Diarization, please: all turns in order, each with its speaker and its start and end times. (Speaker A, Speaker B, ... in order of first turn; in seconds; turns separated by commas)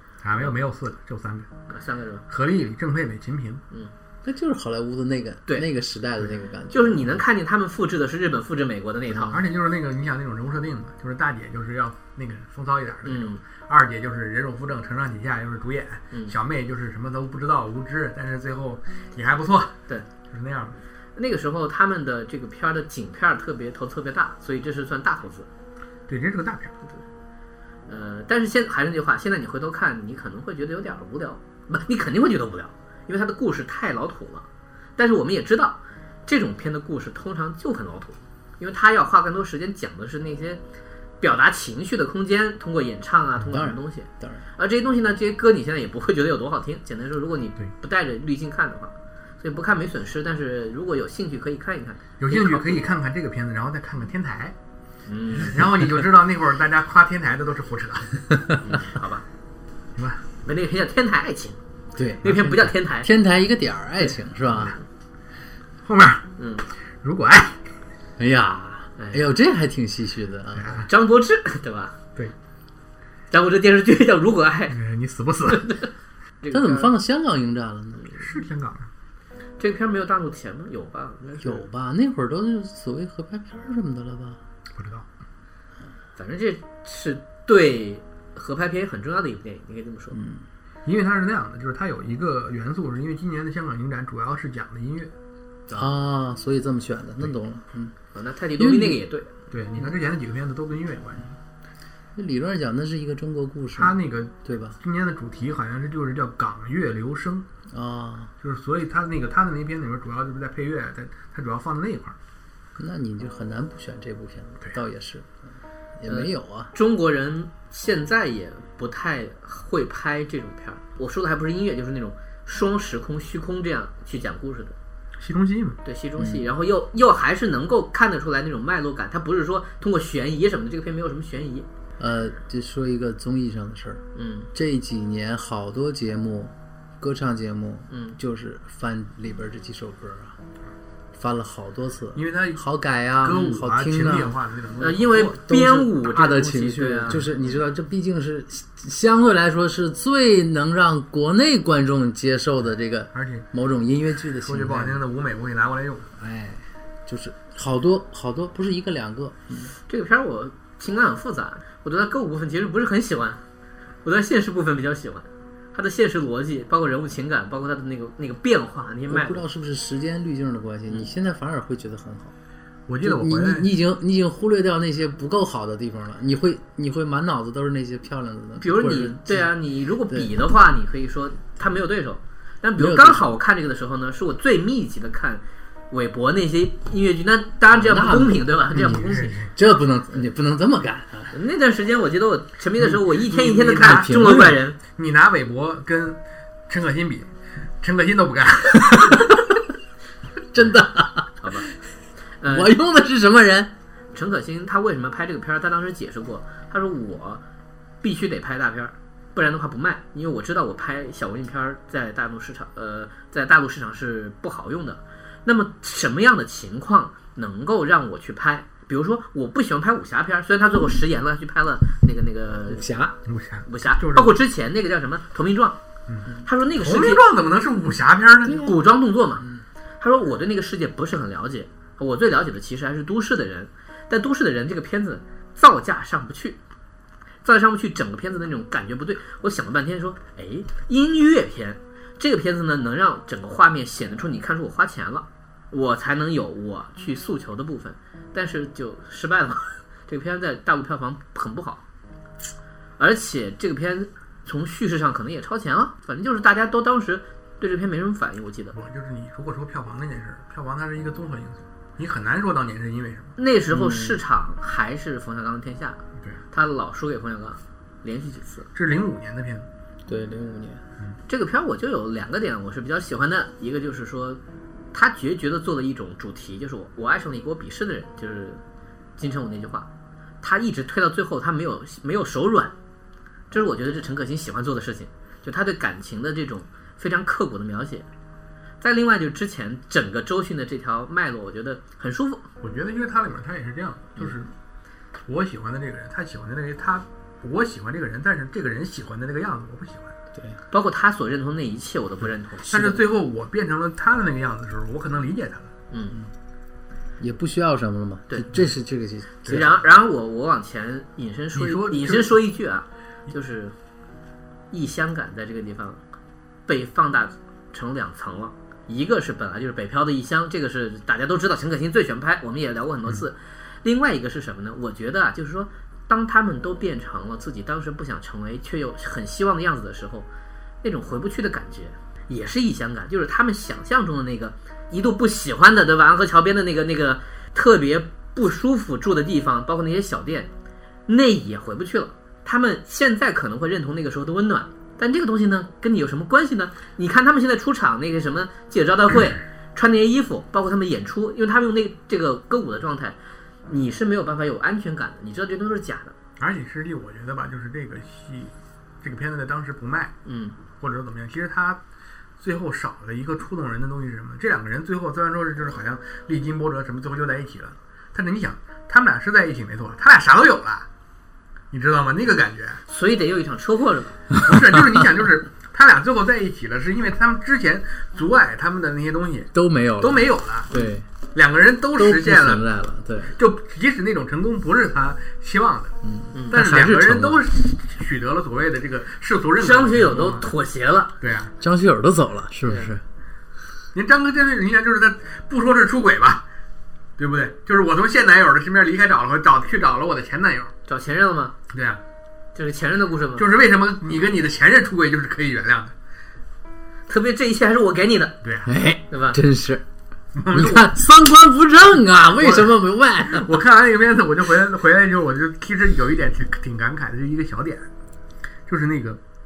Speaker A: 0.2-1.5, Speaker B: 1.7-2.2, Speaker A: 2.3-3.6, Speaker C: 4.2-7.2, Speaker B: 6.7-9.4, Speaker A: 9.3-19.8, Speaker B: 13.0-13.4, Speaker A: 20.3-20.8, Speaker B: 21.1-25.5, Speaker A: 26.1-26.8, Speaker B: 27.9-34.5, Speaker B: 35.0-40.6, Speaker B: 41.2-52.7, Speaker C: 43.5-44.4, Speaker A: 52.2-54.5, Speaker B: 55.0-55.6, Speaker A: 55.4-58.2, Speaker B: 58.6-59.2, Speaker A: 60.0-60.2, Speaker B: 60.4-61.6, Speaker C: 62.0-64.8, Speaker B: 62.2-63.1, Speaker A: 65.8-66.3, Speaker B: 66.4-66.6, Speaker A: 67.0-67.6, Speaker C: 68.2-70.9, Speaker B: 69.0-69.3, Speaker A: 70.6-70.9, Speaker B: 70.8-72.0, Speaker B: 73.3-74.8, Speaker A: 74.7-75.7, Speaker B: 75.6-75.9, Speaker B: 76.4-76.9, Speaker C: 76.5-78.3, Speaker A: 78.2-78.9, Speaker B: 79.6-81.6, Speaker C: 81.4-84.4, Speaker A: 84.8-85.0, Speaker B: 86.2-90.2, Speaker C: 90.1-90.5, Speaker A: 90.8-95.1, Speaker C: 95.7-98.0, Speaker B: 98.1-99.3, Speaker C: 98.6-99.0, Speaker A: 99.5-101.3, Speaker C: 102.1-104.8, Speaker A: 103.8-107.5, Speaker C: 107.7-108.3, Speaker A: 108.4-112.2, Speaker C: 112.8-116.7, Speaker B: 116.1-124.8, Speaker A: 125.2-125.8, Speaker B: 125.8-131.7, Speaker C: 126.2-126.5, Speaker C: 132.0-134.0, Speaker B: 134.1-134.5, Speaker C: 134.5-140.4, Speaker B: 137.9-138.2, Speaker C: 141.1-144.4, Speaker A: 142.1-142.6, Speaker A: 143.2-145.4, Speaker B: 144.8-147.2, Speaker C: 145.2-155.0, Speaker A: 153.1-153.5, Speaker A: 154.4-156.1, Speaker C: 156.2-159.7, Speaker B: 159.9-163.4, Speaker B: 164.0-169.4, Speaker C: 169.1-172.3, Speaker A: 172.9-173.7, Speaker C: 173.0-179.5, Speaker B: 178.6-189.3, Speaker C: 182.8-183.2, Speaker C: 187.7-191.3, Speaker A: 188.8-189.5, Speaker B: 191.3-194.8, Speaker A: 192.9-197.3, Speaker C: 193.8-194.6, Speaker A: 197.8-199.5, Speaker C: 200.5-201.5, Speaker B: 201.4-201.7, Speaker B: 202.4-202.8, Speaker C: 202.4-203.7, Speaker B: 204.1-207.4, Speaker B: 208.0-222.9, Speaker C: 222.7-223.2, Speaker A: 223.3-224.4, Speaker B: 223.6-225.8, Speaker A: 226.1-228.7, Speaker B: 226.4-227.2, Speaker C: 228.5-228.8, Speaker B: 228.5-229.5, Speaker B: 230.0-236.6, Speaker B: 237.4-251.8, Speaker B: 253.0-258.8, Speaker A: 258.7-263.4, Speaker B: 263.4-266.0, Speaker C: 263.7-264.2, Speaker B: 266.5-268.7, Speaker A: 268.8-269.6, Speaker C: 270.1-270.8, Speaker B: 271.3-274.4, Speaker B: 274.9-278.6, Speaker B: 279.2-279.9, Speaker B: 280.4-282.7, Speaker B: 283.5-288.1, Speaker B: 288.8-292.5, Speaker A: 292.6-294.5, Speaker A: 295.3-300.1, Speaker B: 300.7-303.0, Speaker A: 302.7-305.7, Speaker B: 305.9-306.2, Speaker C: 307.2-309.8, Speaker B: 309.5-313.8, Speaker A: 311.5-312.4, Speaker B: 314.7-316.0, Speaker B: 316.7-330.3, Speaker B: 330.8-340.5, Speaker B: 341.1-356.1, Speaker A: 356.4-360.1, Speaker B: 360.2-360.6, Speaker A: 360.8-361.8, Speaker A: 362.4-370.9, Speaker A: 371.7-372.8, Speaker B: 372.9-374.2, Speaker A: 374.4-380.8, Speaker C: 379.5-381.1, Speaker A: 381.3-382.6, Speaker C: 381.9-383.4, Speaker A: 383.4-386.0, Speaker C: 386.0-387.4, Speaker B: 386.3-386.6, Speaker A: 386.5-390.5, Speaker B: 389.6-391.1, Speaker A: 391.2-391.5, Speaker C: 391.6-393.0, Speaker A: 393.9-396.4, Speaker A: 397.2-400.7, Speaker B: 400.9-401.5, Speaker A: 401.7-402.0, Speaker B: 402.5-403.5, Speaker A: 403.4-405.9, Speaker B: 407.1-408.4, Speaker A: 408.4-408.7, Speaker C: 408.6-409.8, Speaker B: 409.1-409.4, Speaker A: 410.4-410.9, Speaker C: 410.5-413.6, Speaker A: 412.4-417.9, Speaker A: 418.7-419.2